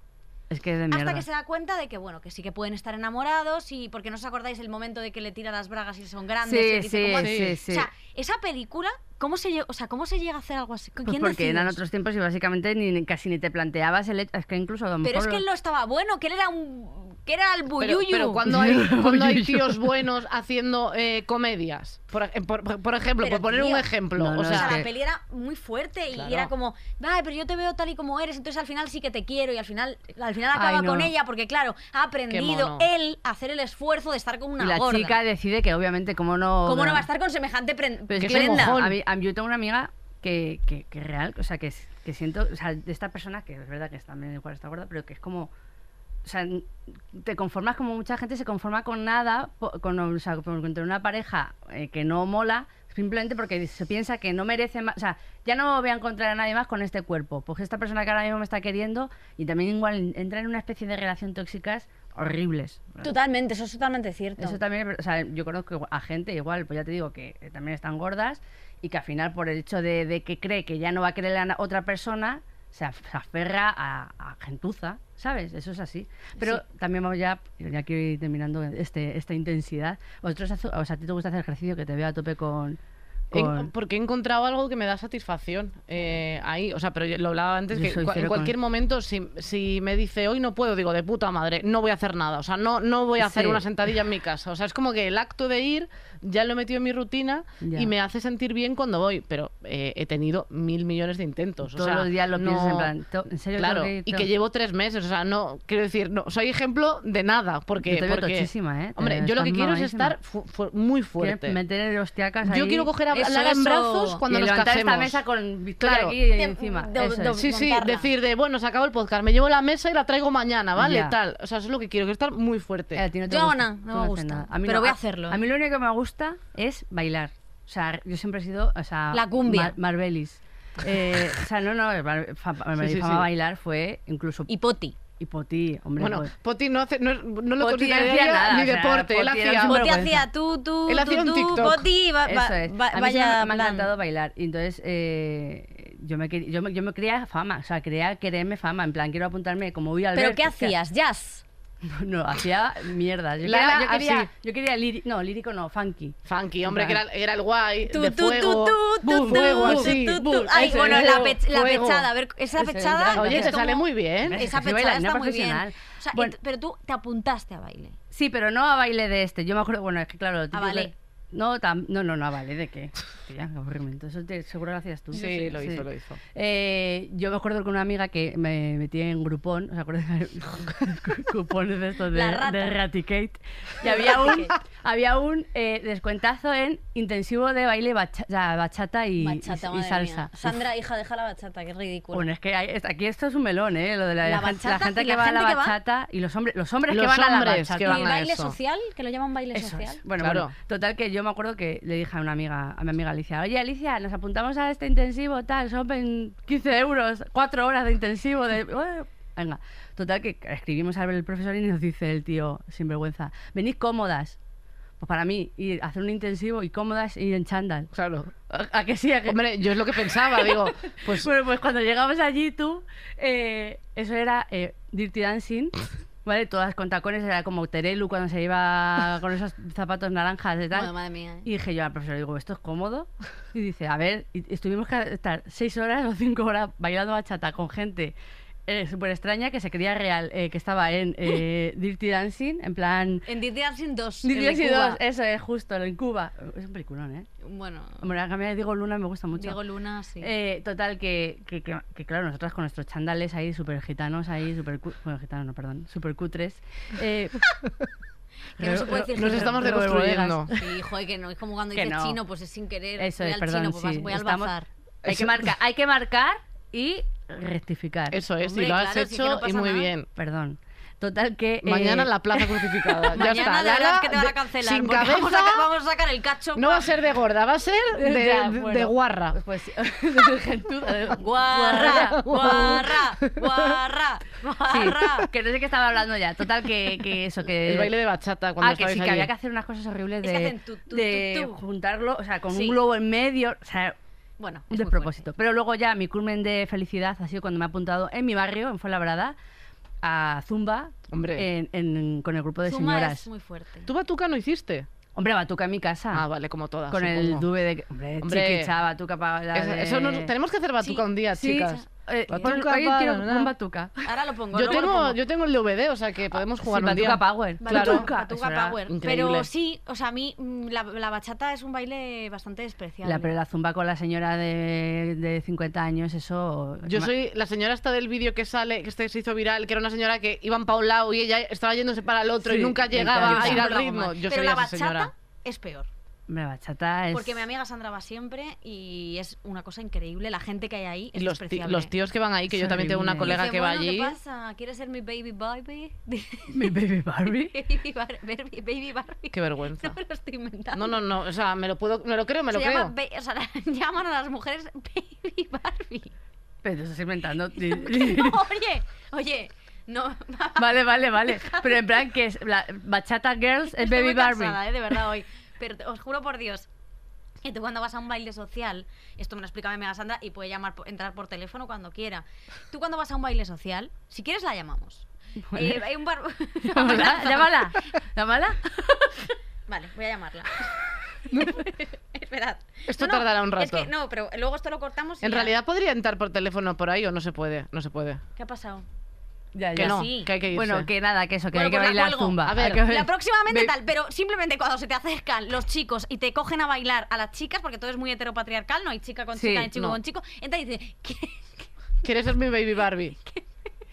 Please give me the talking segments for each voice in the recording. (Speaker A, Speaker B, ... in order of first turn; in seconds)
Speaker A: 0.5-1.2, 6.4-7.9, 11.0-15.4, 18.4-19.9, 24.2-24.9, 30.5-31.1, 34.6-37.1, 38.1-45.5, 46.2-63.1, 64.4-82.8, 83.3-83.7, 87.7-88.5, 93.2-93.7, 97.6-97.9, 101.7-104.3, 107.8-110.2, 111.2-112.9, 114.3-117.4, 120.8-121.2, 123.0-134.5, 135.1-136.3, 137.6-140.2, 142.3-150.7, 151.9-157.0, 159.0-161.8, 162.6-163.6, 164.3-166.3, 168.1-190.6, 192.1-198.1, 199.5-214.4, 215.0-217.9, 218.5-230.9, 231.4-238.2, 238.7-243.2, 244.2-247.3, 248.0-249.6, 250.2-257.4, 258.6-260.7, 261.7-262.2, 263.0-268.2, 270.2-273.2, 277.9-282.8, 284.7-287.9, 288.6-294.0, 294.7-299.4, 300.0-303.3, 305.1-306.3, 306.9-310.3, 311.3-314.1, 316.6-318.8, 323.0-327.1, 332.4-333.7, 336.3-337.4, 342.5-343.4, 346.5-347.6, 356.6-358.4, 360.6-364.6, 375.5-375.9, 376.6-379.3, 389.5-393.8, 399.3-399.7
Speaker B: 0.9-11.8, 15.0-18.4, 23.2-35.2, 36.6-38.9, 63.0-64.6, 113.1-114.2, 116.3-118.1, 123.2-125.5, 129.1-129.8, 134.5-135.0, 139.7-143.9, 150.1-151.4, 157.9-168.0, 170.5-170.9, 182.1-182.8, 183.8-184.5, 189.2-192.3, 194.2-195.8, 197.8-200.0, 230.7-231.5, 243.3-245.0, 247.4-248.2, 249.3-250.3, 258.6-259.8, 260.5-264.7, 268.4-269.9, 273.1-276.9, 281.2-285.3, 290.2-291.6, 292.5-292.8, 294.4-295.3, 302.6-303.9, 312.4-312.6, 314.1-315.2, 317.6-323.3, 333.0-335.9, 337.1-341.9, 343.2-351.0, 352.5-356.2, 357.6-362.0, 363.8-366.7, 367.4-377.7, 379.7-380.7, 381.3-385.6, 388.4-388.9, 389.8-390.3, 391.5-401.7, 403.2-403.5
Speaker C: 7.2-7.6, 17.8-24.8, 26.1-26.5, 32.3-32.9, 38.2-39.0, 83.3-102.9, 103.6-111.6, 112.4-115.2, 115.8-116.2, 117.3-123.0, 132.8-133.3, 136.0-140.2, 140.9-141.9, 153.4-154.3, 156.3-162.1, 163.1-164.4, 175.1-176.2, 196.9-198.6, 200.2-200.5, 217.9-218.3, 219.3-221.3, 259.1-260.5, 265.1-265.5, 268.1-270.1, 271.6-275.7, 276.6-279.4, 281.7-283.4, 287.6-289.3, 301.1-301.5, 303.9-304.9, 306.1-307.5, 308.2-308.7, 309.5-313.5, 314.5-318.1, 318.9-319.5, 326.9-335.1, 341.1-344.2, 349.3-350.0, 350.7-352.9, 382.9-383.9, 385.2-388.2, 389.8-390.9, 392.4-392.9, 402.0-403.2